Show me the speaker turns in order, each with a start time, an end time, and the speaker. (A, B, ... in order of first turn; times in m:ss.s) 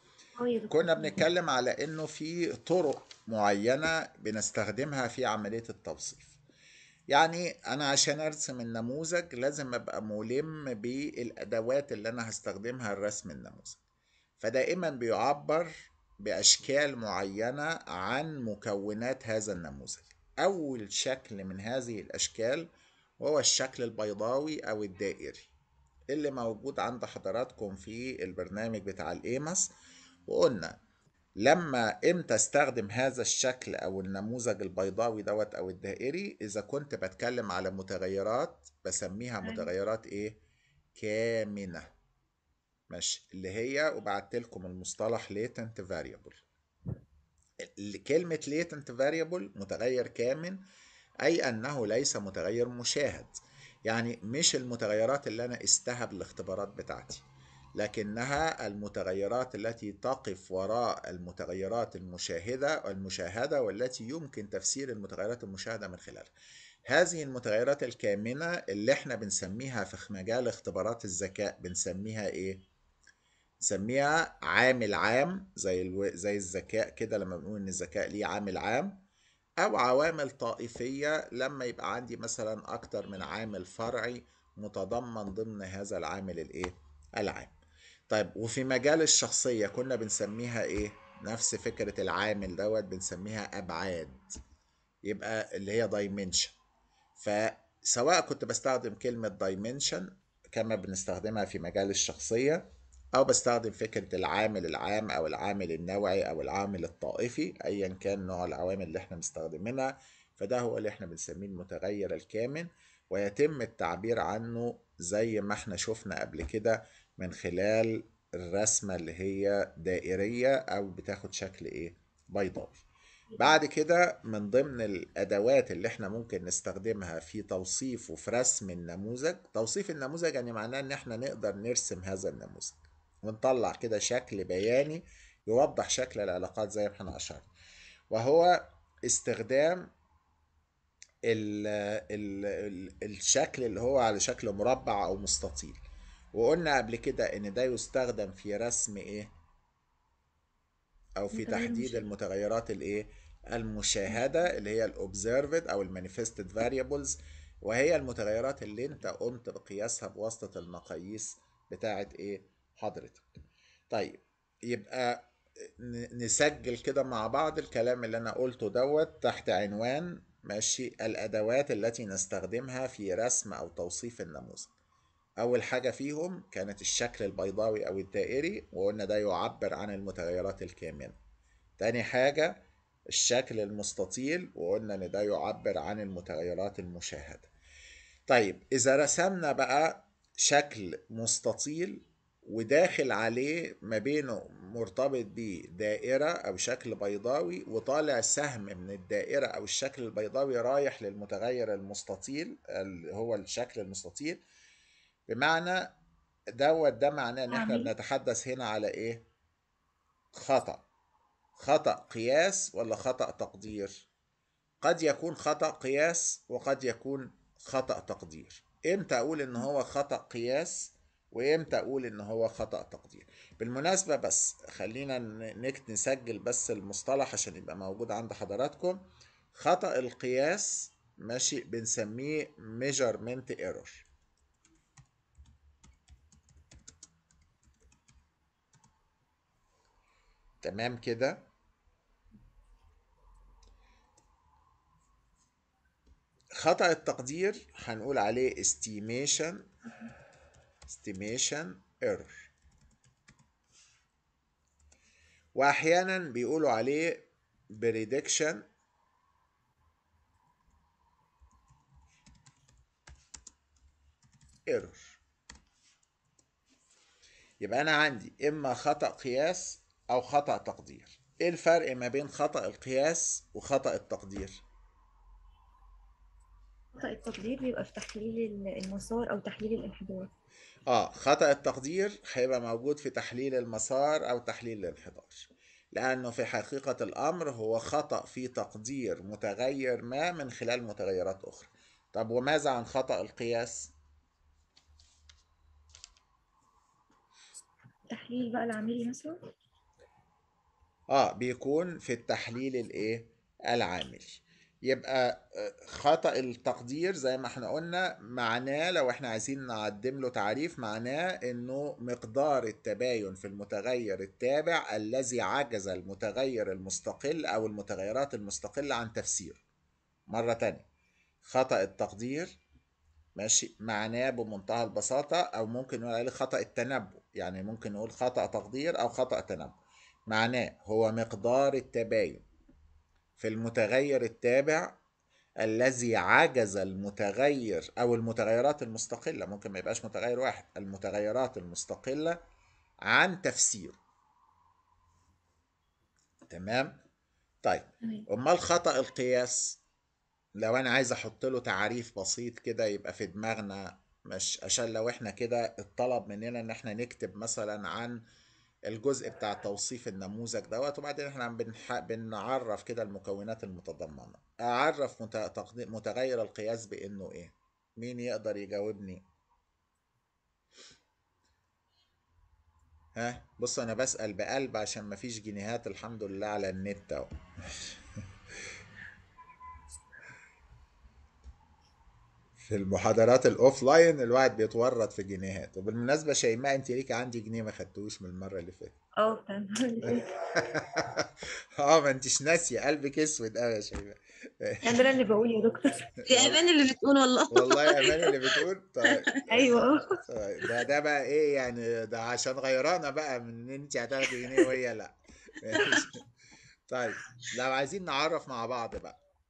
0:00.4-0:01.2 A
0:00.7-0:06.4 B
0:07.1-0:13.8 B
0:14.4-0:22.7 B
0:23.2-0:25.5 B
0:26.1-0:29.7 B
0:30.2-0:30.8 B
0:31.4-0:40.4 B
0:39.4-0:39.7 A
0:40.9-0:41.9 B
0:42.9-0:46.5 B
0:47.6-0:50.6 B
0:51.2-0:57.2 B
0:57.8-1:06.3 B
1:06.9-1:12.6 B
1:13.6-1:19.0 B
1:19.6-1:27.5 B
1:28.1-1:34.2 B
1:35.0-1:36.6 B
1:37.2-2:02.8 B
2:03.3-2:03.6 A
2:03.4-2:17.4 B
2:18.1-2:19.9 B
2:21.2-2:25.8 B
2:26.3-2:29.3 B
2:31.2-2:43.2 B
2:31.3-2:32.0 A
2:43.9-2:54.7 B
2:55.4-3:01.2 B
3:01.8-3:07.5 B
3:08.3-3:24.4 B
3:25.3-3:25.9 B
3:26.6-3:29.2 B
3:27.5-3:27.9 A
3:30.3-3:30.8 B
3:31.6-3:34.1 B
3:34.8-3:49.0 B
3:49.5-3:54.0 B
4:00.6-4:01.4 B
4:06.6-4:09.7 B
4:10.9-4:12.5 B
4:15.5-4:18.6 B
4:24.7-4:25.2 B
4:27.6-4:34.6 B
4:36.9-4:40.3 A
4:40.9-4:53.9 B
4:58.1-4:59.4 A
5:01.1-5:19.6 B
5:20.3-5:20.8 B
5:21.4-5:22.6 B
5:23.4-5:29.8 B
5:30.3-5:32.4 B
5:33.4-5:35.0 B
5:35.6-5:42.4 B
5:43.0-5:44.0 B
5:46.5-5:46.9 B
5:47.6-5:49.8 B
5:50.6-5:58.2 B
5:58.9-6:09.2 B
6:13.1-6:18.0 B
6:22.6-6:28.9 B
6:29.2-6:30.3 A
6:30.0-6:35.0 B
6:34.8-6:36.0 A
6:36.2-6:36.6 B
6:36.3-6:38.6 C
6:37.5-6:46.2 B
6:39.5-6:40.2 A
6:46.9-6:49.2 B